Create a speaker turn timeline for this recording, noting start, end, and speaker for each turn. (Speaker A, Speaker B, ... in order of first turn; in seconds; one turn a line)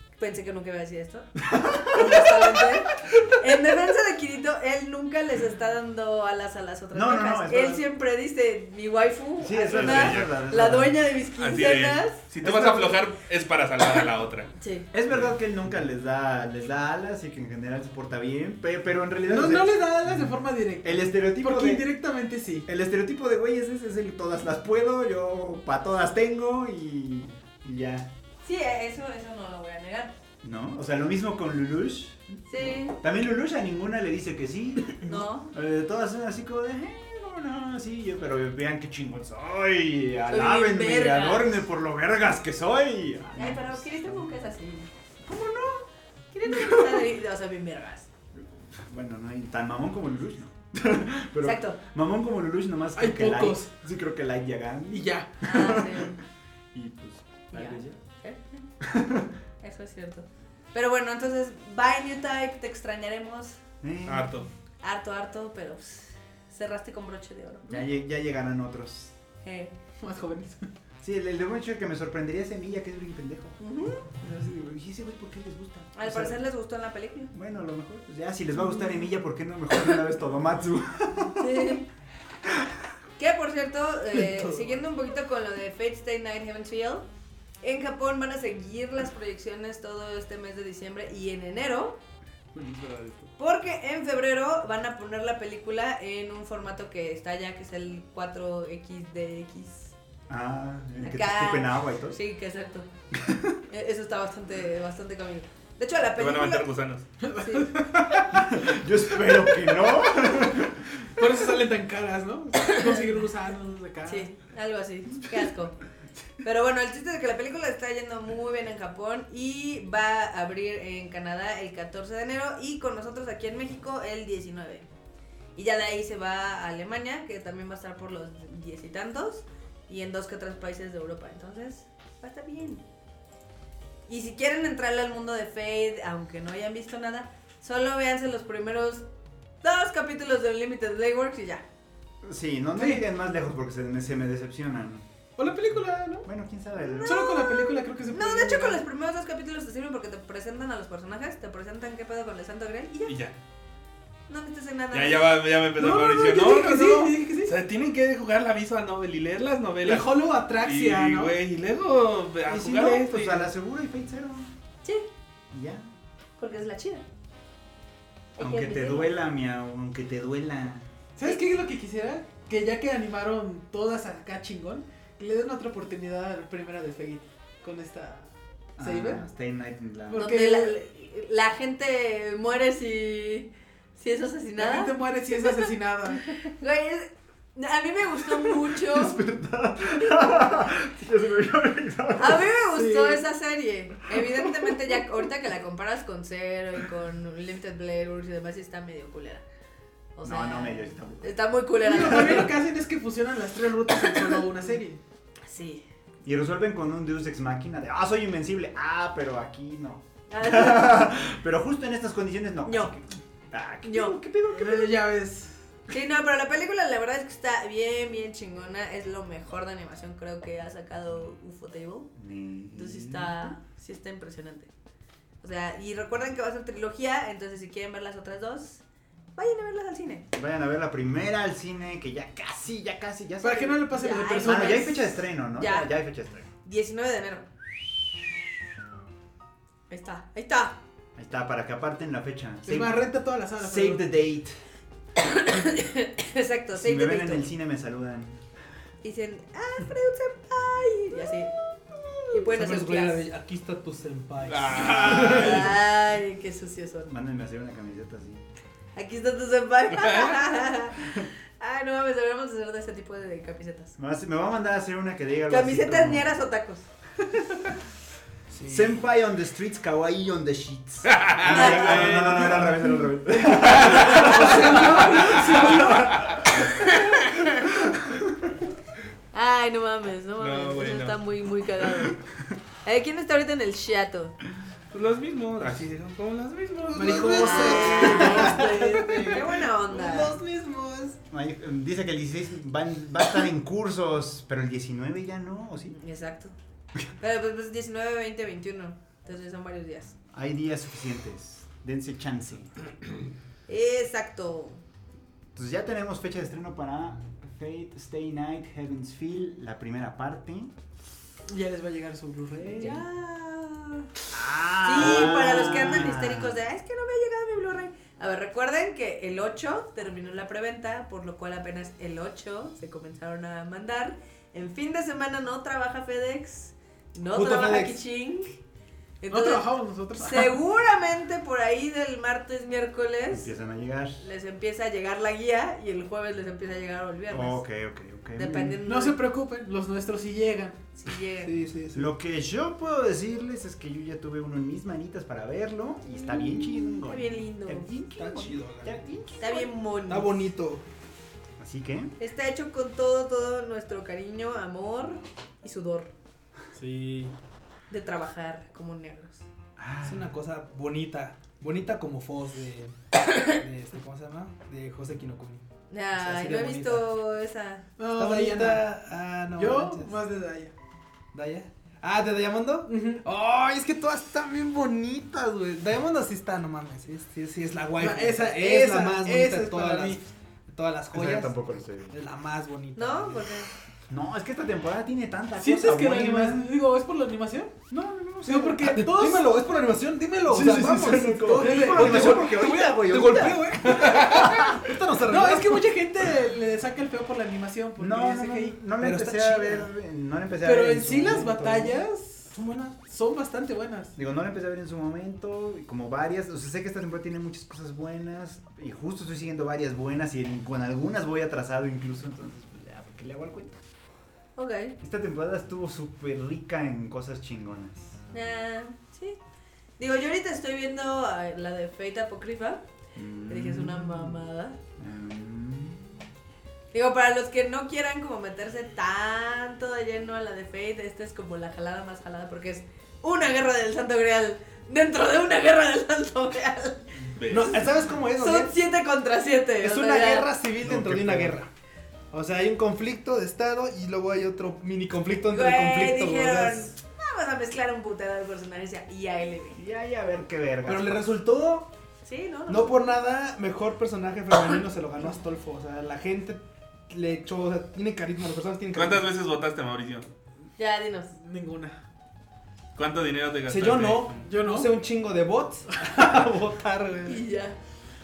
Speaker A: 0.2-12.2
Speaker B: 1.4-2.6
Speaker B: 6.9-7.8
Speaker B: 9.4-10.9
Speaker C: 9.7-10.3
Speaker C: 11.4-14.5
Speaker B: 12.4-12.9
Speaker A: 14.6-14.9
Speaker B: 14.9-20.3
Speaker D: 19.2-22.7
Speaker B: 20.8-21.9
Speaker B: 22.7-28.1
Speaker A: 28.4-30.1
Speaker B: 30.4-44.3
Speaker A: 32.5-33.0
Speaker A: 35.0-35.5
Speaker A: 40.3-41.6
Speaker A: 43.3-44.9
Speaker B: 45.2-45.9
Speaker A: 46.3-48.1
Speaker B: 46.4-47.1
Speaker B: 48.3-56.1
Speaker A: 51.4-51.8
Speaker D: 53.0-53.7
Speaker D: 54.9-55.5
Speaker A: 55.4-56.2
Speaker B: 56.7-58.0
Speaker A: 57.5-58.6
Speaker B: 58.8-59.3
Speaker A: 59.6-63.6
Speaker B: 63.8-64.3
Speaker C: 64.0-64.5
Speaker A: 64.8-67.8
Speaker B: 67.7-69.1
Speaker A: 69.4-69.7
Speaker D: 70.0-70.7
Speaker B: 71.0-73.5
Speaker A: 73.6-74.1
Speaker B: 74.2-76.4
Speaker A: 75.9-77.3
Speaker B: 77.3-81.8
Speaker A: 81.3-81.9
Speaker B: 82.5-82.7
Speaker A: 83.2-87.0
Speaker A: 87.6-92.0
Speaker C: 92.5-93.3
Speaker A: 93.4-99.9
Speaker B: 100.3-102.2
Speaker A: 101.0-102.9
Speaker B: 103.1-103.5
Speaker A: 103.7-106.7
Speaker C: 106.2-107.0
Speaker D: 107.2-108.4
Speaker A: 107.2-107.7
Speaker B: 108.3-111.0
Speaker D: 111.2-114.3
Speaker A: 112.5-113.1
Speaker A: 114.0-115.8
Speaker A: 116.4-124.8
Speaker A: 125.5-132.8
Speaker A: 134.1-139.0
Speaker A: 139.6-141.6
Speaker B: 142.2-145.0
Speaker D: 142.8-143.0
Speaker D: 145.4-146.3
Speaker B: 146.2-147.2
Speaker A: 146.8-153.2
Speaker D: 147.0-148.8
Speaker C: 153.1-153.3
Speaker A: 154.3-155.4
Speaker C: 154.9-163.5
Speaker D: 155.8-157.6
Speaker D: 159.8-161.4
Speaker B: 162.5-164.5
Speaker B: 165.5-165.9
Speaker A: 166.4-167.0
Speaker A: 168.4-169.1
Speaker B: 168.4-170.9
Speaker D: 171.2-179.2
Speaker A: 171.2-171.5
Speaker B: 178.8-180.3
Speaker D: 180.1-180.8
Speaker A: 180.1-185.7
Speaker D: 184.6-186.3
Speaker A: 186.2-189.2
Speaker B: 188.4-192.6
Speaker A: 192.2-199.4
Speaker D: 192.7-193.2
Speaker A: 200.2-202.5
Speaker B: 200.2-201.4
Speaker D: 201.8-205.0
Speaker A: 205.5-205.8
Speaker B: 206.2-214.9
Speaker A: 210.3-211.1
Speaker A: 212.6-212.9
Speaker A: 213.8-214.2
Speaker D: 214.4-215.5
Speaker A: 215.9-222.1
Speaker B: 222.2-223.4
Speaker A: 222.7-224.7
Speaker A: 225.4-228.8
Speaker A: 229.3-230.2
Speaker B: 230.3-236.5
Speaker D: 233.4-235.0
Speaker A: 233.9-235.0
Speaker A: 235.6-235.9
Speaker A: 236.6-237.5
Speaker A: 239.9-240.8
Speaker B: 241.2-244.6
Speaker D: 242.7-244.1
Speaker A: 245.2-247.5
Speaker B: 246.7-248.4
Speaker A: 249.0-251.5
Speaker A: 252.3-253.2
Speaker E: 252.4-255.7
Speaker C: 254.5-255.7
Speaker B: 254.9-255.3
Speaker A: 254.9-257.1
Speaker B: 257.1-258.4
Speaker A: 258.9-263.9
Speaker C: 259.9-260.4
Speaker B: 261.0-261.3
Speaker B: 264.0-266.3
Speaker A: 265.5-266.9
Speaker C: 268.5-268.9
Speaker B: 268.6-276.7
Speaker C: 271.1-272.6
Speaker A: 271.4-272.1
Speaker E: 271.5-272.6
Speaker D: 272.1-276.2
Speaker C: 273.7-274.2
Speaker A: 276.8-277.5
Speaker A: 279.3-282.2
Speaker C: 280.4-281.2
Speaker A: 282.8-284.3
Speaker C: 284.9-287.7
Speaker B: 285.6-285.9
Speaker D: 286.9-289.4
Speaker E: 286.9-291.2
Speaker A: 287.2-290.4
Speaker B: 291.3-295.9
Speaker A: 295.9-296.5
Speaker A: 297.2-300.1
Speaker B: 300.3-302.7
Speaker A: 303.7-304.8
Speaker B: 305.6-310.7
Speaker D: 311.5-313.0
Speaker A: 312.7-314.1
Speaker B: 314.3-316.6
Speaker A: 314.8-328.6
Speaker E: 327.3-328.0
Speaker A: 329.2-333.5
Speaker D: 329.3-330.6
Speaker B: 333.3-334.2
Speaker A: 334.2-337.6
Speaker B: 337.3-338.8
Speaker A: 338.3-339.2
Speaker D: 338.8-340.8
Speaker A: 340.9-341.5
Speaker E: 341.4-342.1
Speaker B: 341.9-349.7
Speaker A: 346.2-347.9
Speaker E: 348.1-349.0
Speaker A: 349.4-350.5
Speaker E: 350.1-350.8
Speaker B: 351.6-352.1
Speaker A: 352.2-356.1
Speaker E: 356.7-357.3
Speaker A: 357.9-359.4
Speaker B: 359.8-360.4
Speaker E: 360.0-365.6
Speaker A: 365.9-367.9
Speaker E: 366.2-367.1
Speaker D: 368.0-368.9
Speaker E: 368.1-370.2
Speaker D: 369.5-370.7
Speaker E: 371.3-383.5
Speaker D: 372.9-373.2
Speaker D: 378.0-380.2
Speaker B: 381.1-382.1
Speaker A: 382.9-383.7
Speaker B: 384.1-386.7
Speaker D: 385.6-387.7
Speaker B: 387.9-388.9
Speaker D: 388.4-389.5
Speaker E: 388.8-395.9
Speaker D: 390.5-392.8
Speaker B: 390.5-394.5
Speaker D: 393.8-394.7
Speaker D: 395.3-398.8
Speaker B: 398.0-402.0
Speaker E: 399.0-399.9
Speaker D: 400.6-404.1
Speaker E: 402.5-402.9
Speaker B: 404.2-413.7
Speaker A: 414.6-415.0
Speaker B: 415.0-418.2
Speaker A: 418.3-419.4
Speaker A: 420.0-422.8
Speaker B: 423.1-424.4
Speaker A: 423.5-424.8
Speaker B: 425.0-426.2
Speaker A: 426.9-437.2
Speaker C: 437.3-437.9
Speaker E: 437.5-438.8
Speaker A: 438.3-440.5
Speaker E: 439.8-441.7
Speaker B: 440.8-441.6
Speaker E: 442.3-446.9
Speaker A: 445.5-449.8
Speaker B: 449.7-451.2
Speaker E: 450.9-451.9
Speaker A: 452.2-453.1
Speaker E: 452.7-459.2
Speaker C: 458.9-460.3
Speaker A: 460.8-461.3
Speaker D: 461.4-462.0
Speaker C: 462.9-464.4
Speaker E: 463.7-467.4
Speaker D: 464.4-464.9
Speaker A: 467.2-467.8